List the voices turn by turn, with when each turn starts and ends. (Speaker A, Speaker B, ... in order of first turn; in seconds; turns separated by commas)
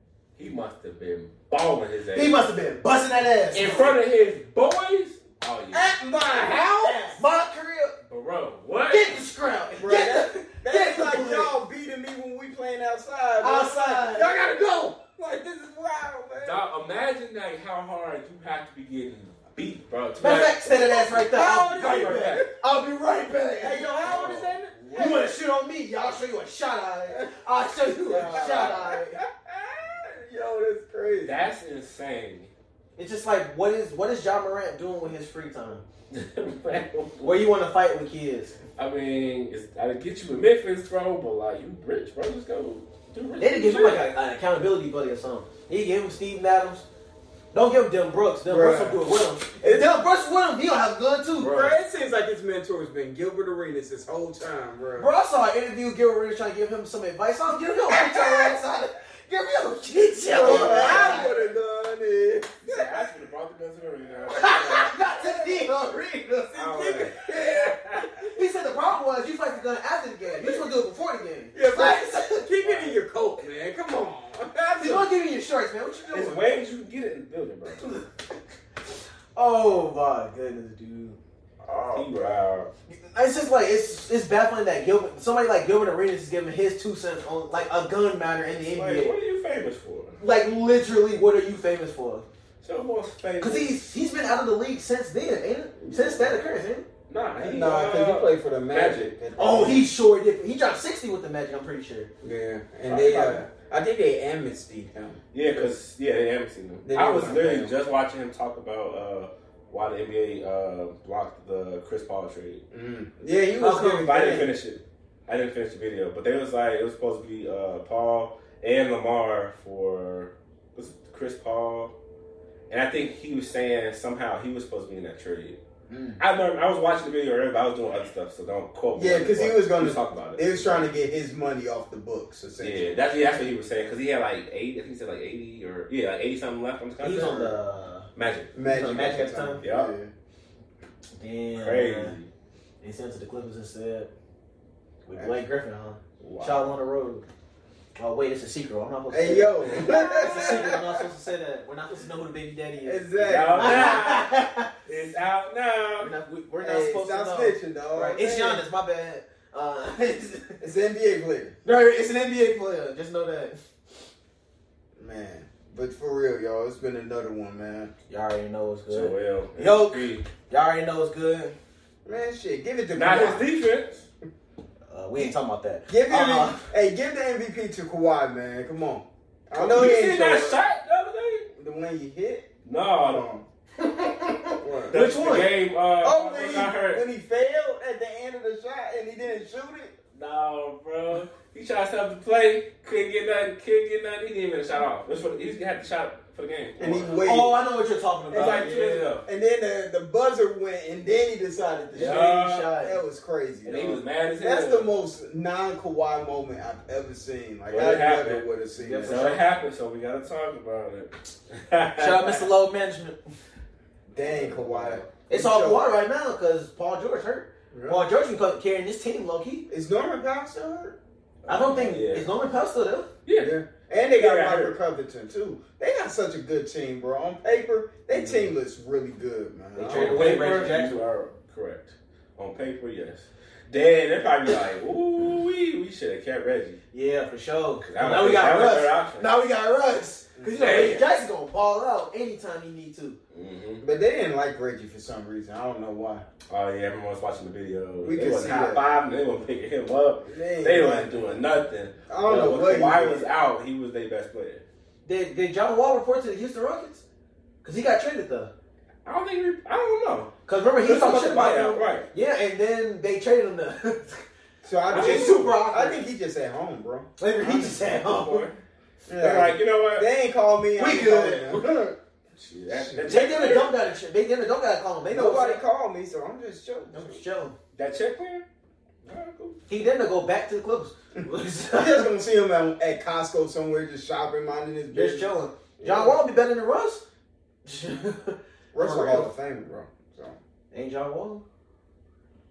Speaker A: 0.4-2.4, Speaker B: 2.1-3.9, Speaker A: 3.5-7.2, Speaker C: 5.7-6.6, Speaker B: 6.7-8.0, Speaker A: 8.1-9.3, Speaker B: 8.9-11.6, Speaker C: 9.7-16.6, Speaker B: 13.4-14.3, Speaker A: 16.4-20.9, Speaker B: 20.2-24.4, Speaker C: 20.6-22.5, Speaker A: 21.5-22.4, Speaker C: 23.6-25.2, Speaker A: 24.0-25.3, Speaker B: 24.9-29.2, Speaker C: 28.0-31.4, Speaker A: 31.2-32.5, Speaker B: 33.0-35.8, Speaker A: 36.1-37.5, Speaker B: 37.2-38.5, Speaker A: 38.8-44.0, Speaker B: 43.4-46.8, Speaker B: 47.5-51.6, Speaker C: 48.5-50.0, Speaker A: 51.4-51.8, Speaker C: 51.4-55.1, Speaker B: 55.0-61.3, Speaker C: 57.9-58.6, Speaker C: 60.3-63.1, Speaker A: 60.3-61.4, Speaker A: 62.6-65.0, Speaker B: 64.3-66.7, Speaker C: 65.1-65.7, Speaker A: 66.5-68.2, Speaker C: 66.5-68.3, Speaker B: 68.2-72.4, Speaker A: 70.4-70.7, Speaker C: 71.5-75.1, Speaker A: 72.6-73.0, Speaker B: 74.8-76.4, Speaker A: 76.1-77.9, Speaker B: 77.8-78.4, Speaker B: 79.3-81.2, Speaker C: 81.6-82.2, Speaker A: 81.9-82.7, Speaker B: 82.9-89.2, Speaker A: 88.7-90.2, Speaker B: 90.2-92.2, Speaker A: 92.6-93.8, Speaker B: 93.4-96.8, Speaker C: 95.9-96.3, Speaker A: 97.1-99.1, Speaker C: 97.4-99.9, Speaker B: 99.3-102.1, Speaker C: 102.2-105.7, Speaker A: 102.9-103.4, Speaker A: 105.3-112.6, Speaker C: 106.8-107.7, Speaker C: 112.7-114.5, Speaker B: 113.6-114.0, Speaker A: 113.7-121.9, Speaker A: 122.7-125.6, Speaker C: 125.9-126.2, Speaker A: 126.2-130.8, Speaker C: 128.9-132.9, Speaker A: 132.6-137.6, Speaker B: 137.0-138.1, Speaker A: 138.2-138.5, Speaker C: 138.5-140.1, Speaker B: 138.6-139.6, Speaker A: 139.6-139.9, Speaker B: 141.2-142.2, Speaker A: 141.5-142.3, Speaker B: 142.8-144.1, Speaker B: 145.1-147.2, Speaker C: 145.1-145.4, Speaker C: 146.2-146.6, Speaker B: 147.9-154.7, Speaker C: 149.1-151.0, Speaker A: 149.7-150.7, Speaker C: 152.8-154.0, Speaker A: 153.2-156.1, Speaker B: 156.0-160.6, Speaker C: 156.6-158.6, Speaker C: 160.6-161.5, Speaker B: 161.6-163.6, Speaker C: 164.9-167.9, Speaker B: 168.1-171.6, Speaker A: 168.9-170.3, Speaker C: 172.0-173.5, Speaker A: 172.9-174.0, Speaker B: 174.9-176.7, Speaker C: 175.9-180.6, Speaker A: 179.5-181.4, Speaker C: 181.5-182.5, Speaker A: 182.6-183.2, Speaker C: 183.0-183.4, Speaker B: 183.8-185.6, Speaker C: 184.6-184.9, Speaker A: 184.9-187.0, Speaker C: 186.0-189.9, Speaker A: 190.1-197.2, Speaker C: 196.8-197.6, Speaker B: 197.2-198.7, Speaker A: 198.3-199.2, Speaker C: 198.3-209.2, Speaker B: 201.9-203.0, Speaker A: 201.9-202.8, Speaker A: 203.6-204.9, Speaker A: 207.7-208.5, Speaker B: 208.8-209.4, Speaker A: 209.0-212.5, Speaker B: 212.0-213.2, Speaker C: 214.1-215.8, Speaker A: 214.2-215.1, Speaker B: 215.3-219.7, Speaker C: 217.7-218.0, Speaker C: 219.7-221.0, Speaker A: 221.4-222.3, Speaker B: 221.5-223.1, Speaker A: 223.2-223.5, Speaker C: 223.4-230.5, Speaker A: 224.1-224.8, Speaker A: 228.1-228.5, Speaker B: 229.7-231.0, Speaker A: 229.9-236.8, Speaker B: 236.9-243.2, Speaker A: 237.8-239.3, Speaker C: 240.4-241.0, Speaker A: 240.6-241.1, Speaker A: 243.3-243.8, Speaker C: 243.8-246.2, Speaker A: 246.5-254.6, Speaker C: 248.0-248.8, Speaker C: 250.2-251.4, Speaker C: 252.1-253.3, Speaker B: 255.0-257.0, Speaker B: 257.6-258.5, Speaker A: 259.0-262.1, Speaker B: 260.4-264.2, Speaker C: 264.6-267.9, Speaker A: 264.9-265.6, Speaker B: 264.9-266.1, Speaker B: 267.2-268.5, Speaker A: 267.9-268.5, Speaker C: 269.1-271.9, Speaker A: 269.2-270.1, Speaker B: 270.8-271.7, Speaker A: 272.4-273.7, Speaker C: 272.7-273.2, Speaker B: 273.1-275.6, Speaker C: 275.1-277.2, Speaker B: 276.9-277.5, Speaker A: 277.7-278.4, Speaker A: 279.0-279.6, Speaker B: 279.7-282.1, Speaker C: 281.7-286.2, Speaker B: 284.9-287.0, Speaker B: 287.6-289.3, Speaker C: 288.7-290.4, Speaker B: 290.7-291.4